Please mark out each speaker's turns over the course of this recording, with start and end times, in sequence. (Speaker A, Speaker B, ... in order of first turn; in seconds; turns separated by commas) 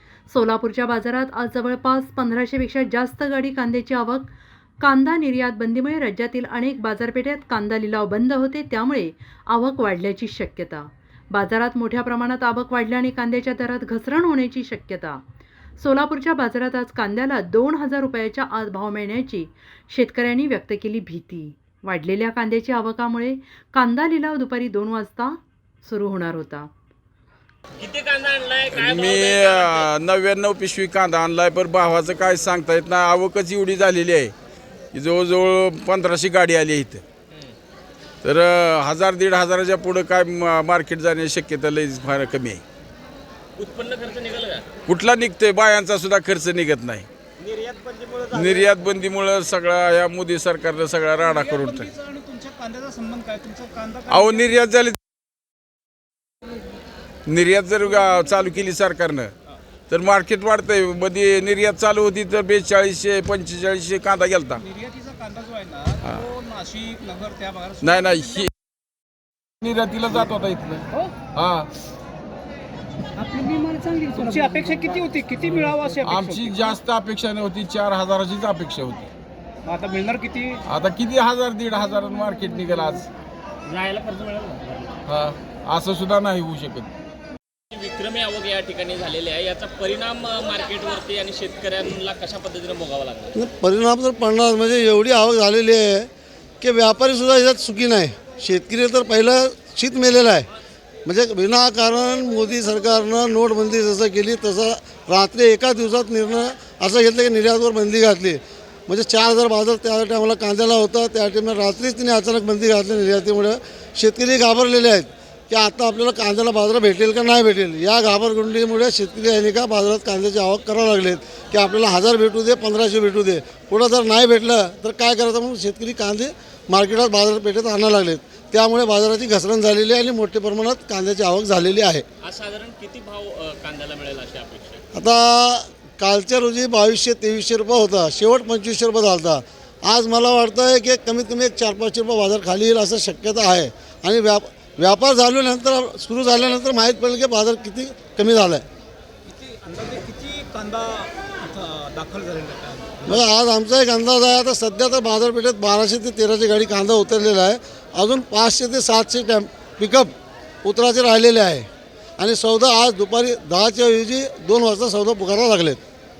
Speaker A: 0.3-15.2, Speaker A: 15.8-26.7, Speaker B: 27.8-29.9, Speaker C: 28.7-34.3, Speaker C: 34.9-37.0, Speaker C: 38.2-42.6, Speaker B: 43.6-44.7, Speaker C: 44.9-47.1, Speaker B: 47.4-48.8, Speaker C: 48.3-51.9, Speaker D: 51.2-54.6, Speaker C: 54.1-55.0, Speaker C: 57.2-59.3, Speaker C: 59.9-64.6, Speaker D: 64.6-68.5, Speaker C: 67.8-68.5, Speaker C: 69.6-71.7, Speaker D: 73.2-76.8, Speaker C: 76.0-79.1, Speaker D: 79.6-80.6, Speaker C: 80.7-83.1, Speaker B: 83.6-85.0, Speaker C: 85.1-86.9, Speaker B: 87.7-93.3, Speaker E: 93.3-96.1, Speaker E: 96.6-100.5, Speaker E: 101.0-132.1, Speaker B: 132.2-134.8, Speaker E: 134.9-148.7, Speaker D: 149.2-153.3, Speaker E: 153.1-160.1, Speaker E: 160.6-161.7, Speaker E: 162.2-165.8